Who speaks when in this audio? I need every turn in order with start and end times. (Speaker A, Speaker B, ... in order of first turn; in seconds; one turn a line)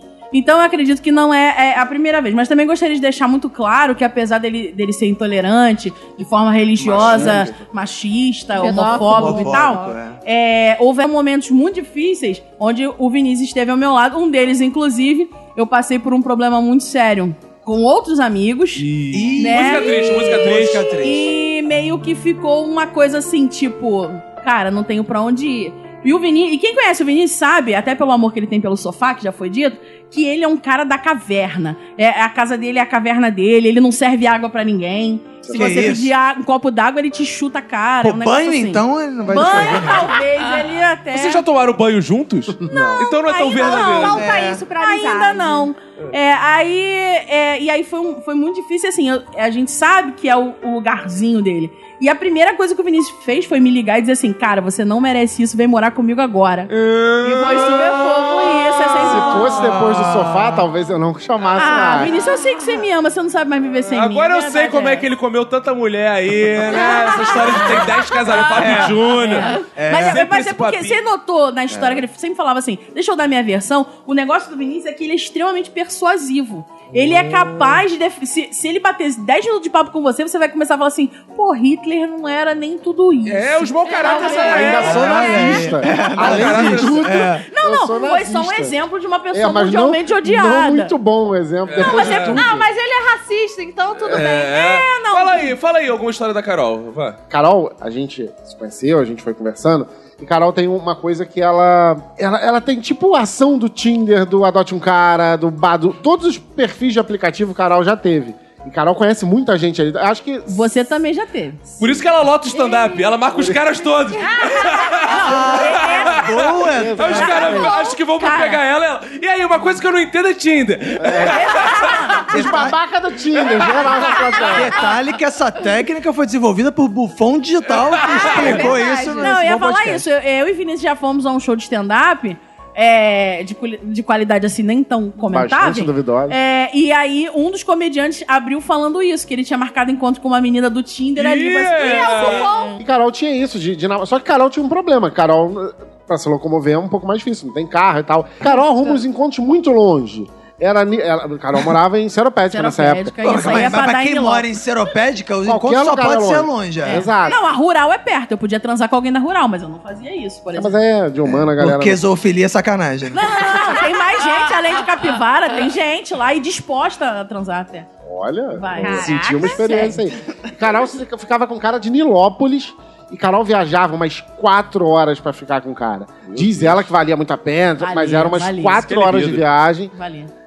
Speaker A: 0.3-41.4
Speaker B: 6.8-7.5
Speaker C: 7.0-7.3
Speaker D: 8.6-9.9
Speaker C: 8.8-10.2
Speaker E: 18.8-20.9
Speaker C: 19.1-21.3
Speaker B: 35.5-35.9
Speaker C: 35.5-36.1
Speaker C: 38.0-40.1
Speaker E: 41.1-44.2
Speaker B: 42.6-43.0
Speaker A: 42.7-44.2
Speaker F: 43.6-45.7
Speaker C: 44.1-44.6
Speaker A: 44.8-59.6
Speaker B: 56.9-57.4
Speaker B: 59.0-62.2
Speaker C: 59.0-60.6
Speaker A: 61.6-65.1
Speaker E: 63.9-71.0
Speaker A: 66.7-85.7
Speaker C: 68.5-69.0
Speaker C: 69.8-70.2
Speaker E: 83.3-85.2
Speaker D: 83.9-85.1
Speaker B: 84.5-88.8
Speaker C: 84.8-87.5
Speaker E: 86.0-87.1
Speaker A: 87.3-90.9
Speaker B: 89.3-92.7
Speaker E: 91.7-92.4
Speaker A: 91.8-92.5
Speaker D: 92.1-94.6
Speaker E: 93.9-97.2
Speaker A: 94.3-95.5
Speaker B: 97.3-110.8
Speaker A: 110.5-111.7
Speaker E: 111.8-115.2
Speaker D: 112.5-113.2
Speaker B: 113.3-113.6
Speaker D: 114.4-114.7
Speaker A: 115.1-116.0
Speaker C: 115.2-117.6
Speaker E: 115.8-121.9
Speaker B: 116.8-117.7
Speaker A: 117.2-118.6
Speaker B: 121.0-121.4
Speaker A: 121.3-122.2
Speaker B: 122.2-124.8
Speaker C: 122.3-122.8
Speaker C: 124.5-130.1
Speaker E: 127.8-128.6
Speaker D: 128.0-129.4
Speaker A: 129.2-142.3
Speaker B: 135.2-136.4
Speaker E: 141.2-142.5
Speaker D: 141.8-142.8
Speaker F: 142.1-142.7
Speaker B: 142.8-153.5
Speaker A: 152.5-154.5
Speaker C: 153.2-157.1
Speaker B: 155.4-157.4
Speaker A: 156.8-160.8
Speaker B: 160.6-162.0
Speaker C: 161.2-163.6
Speaker A: 163.1-167.9
Speaker B: 168.1-179.9
Speaker A: 168.5-170.0
Speaker D: 168.8-169.8
Speaker E: 176.3-176.8
Speaker A: 177.8-178.9
Speaker E: 178.9-179.4
Speaker A: 179.9-180.3